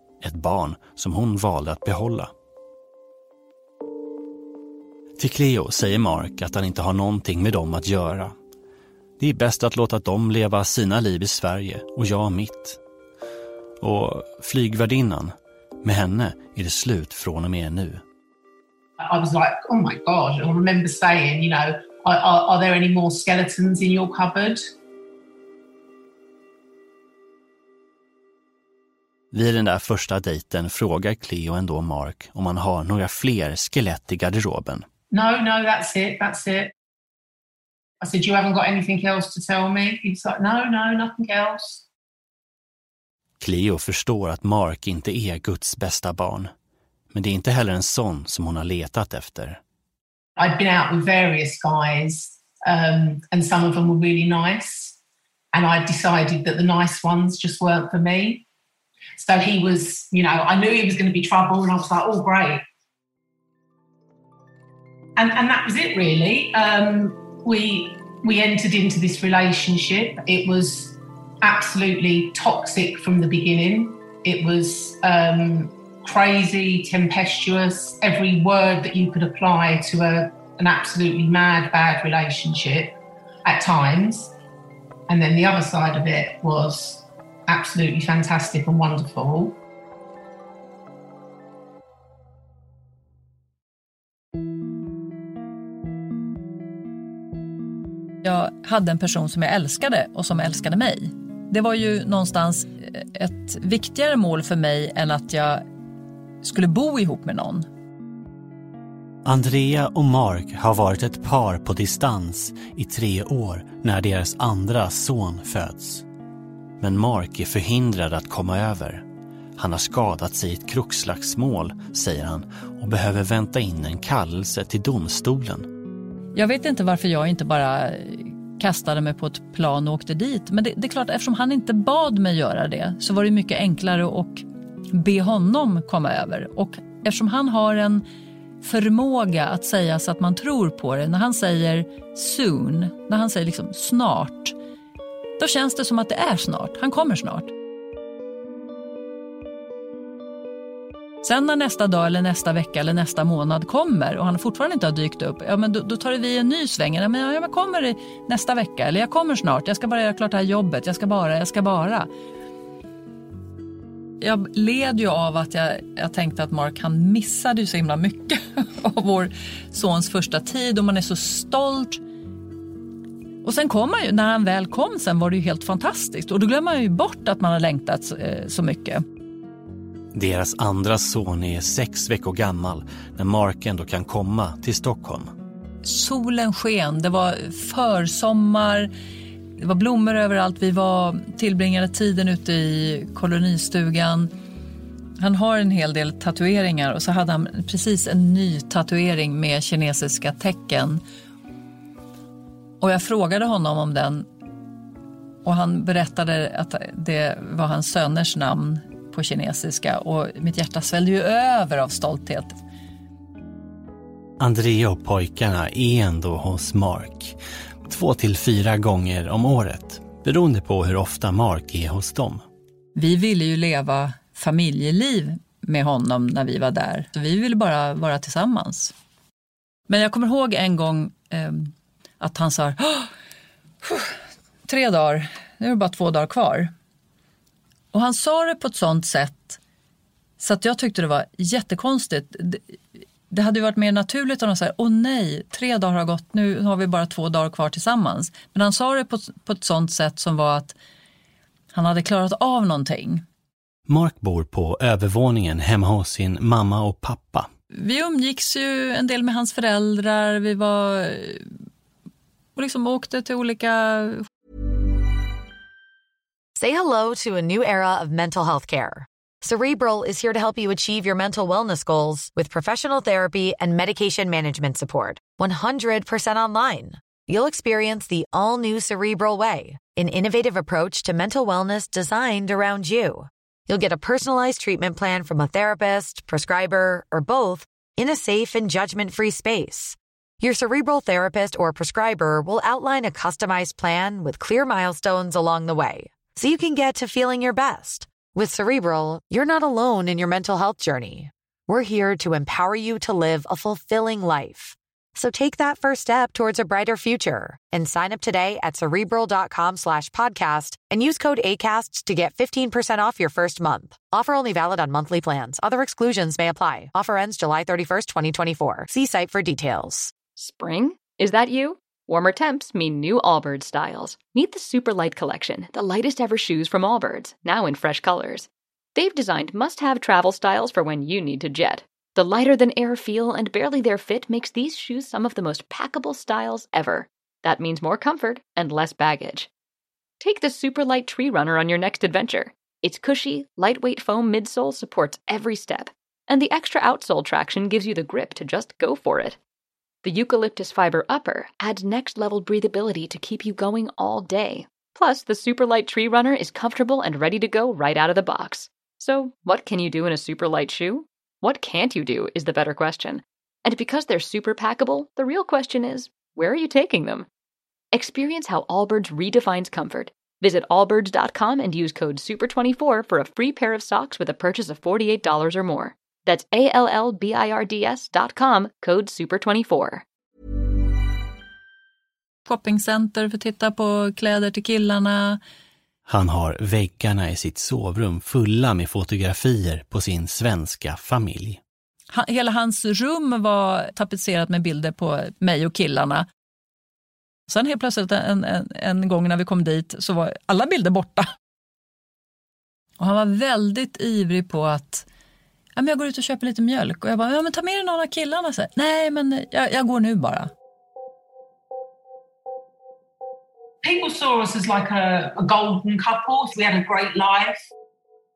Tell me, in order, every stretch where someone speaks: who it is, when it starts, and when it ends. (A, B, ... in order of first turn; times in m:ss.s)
0:00.2-0:02.3 A
0:05.2-0:08.3 A
0:09.2-0:12.8 A
0:13.8-0:18.0 A
0:19.0-0:24.6 B
0:29.3-0:34.9 A
0:35.1-0:36.7 B
0:38.0-0:41.8 B
0:43.4-0:46.5 A
0:47.1-0:49.6 A
0:50.4-0:55.0 B
0:55.5-0:58.4 B
0:59.2-1:02.6 B
1:05.2-1:24.3 B
1:25.1-1:29.6 B
1:38.2-1:45.6 C
1:46.4-1:47.7 C
1:49.2-1:56.0 A
1:56.8-1:59.0 A
1:59.6-2:05.7 A
2:06.4-2:18.0 C
2:18.6-2:24.6 C
2:25.4-2:27.5 C
2:31.2-2:42.1 C
2:44.2-2:52.0 C
2:53.4-2:59.0 C
3:00.1-3:05.3 A
3:05.8-3:08.9 C
3:09.6-3:14.3 C
3:15.2-3:21.0 C
3:22.8-3:24.3 C
3:25.4-3:32.6 C
3:34.4-3:42.4 A
3:42.9-3:48.9 C
3:49.9-3:53.1 C
3:53.8-3:54.2 C
3:54.7-3:56.7 C
3:57.9-3:59.6 C
4:00.4-4:02.7 C
4:03.3-4:10.7 C
4:11.7-4:13.2 C
4:13.9-4:17.5 A
4:17.7-4:21.5 C
4:22.6-4:24.2 C
4:26.6-5:20.1 D
5:20.4-5:39.5 E
5:40.2-5:49.4 E
5:50.0-6:07.3 E
6:07.9-6:20.0 E
6:22.4-6:25.4 C
6:26.1-6:31.6 A
6:32.1-6:36.2 C
6:37.5-6:41.3 C
6:43.0-6:45.1 C
6:45.8-6:50.5 C
6:53.8-6:57.7 B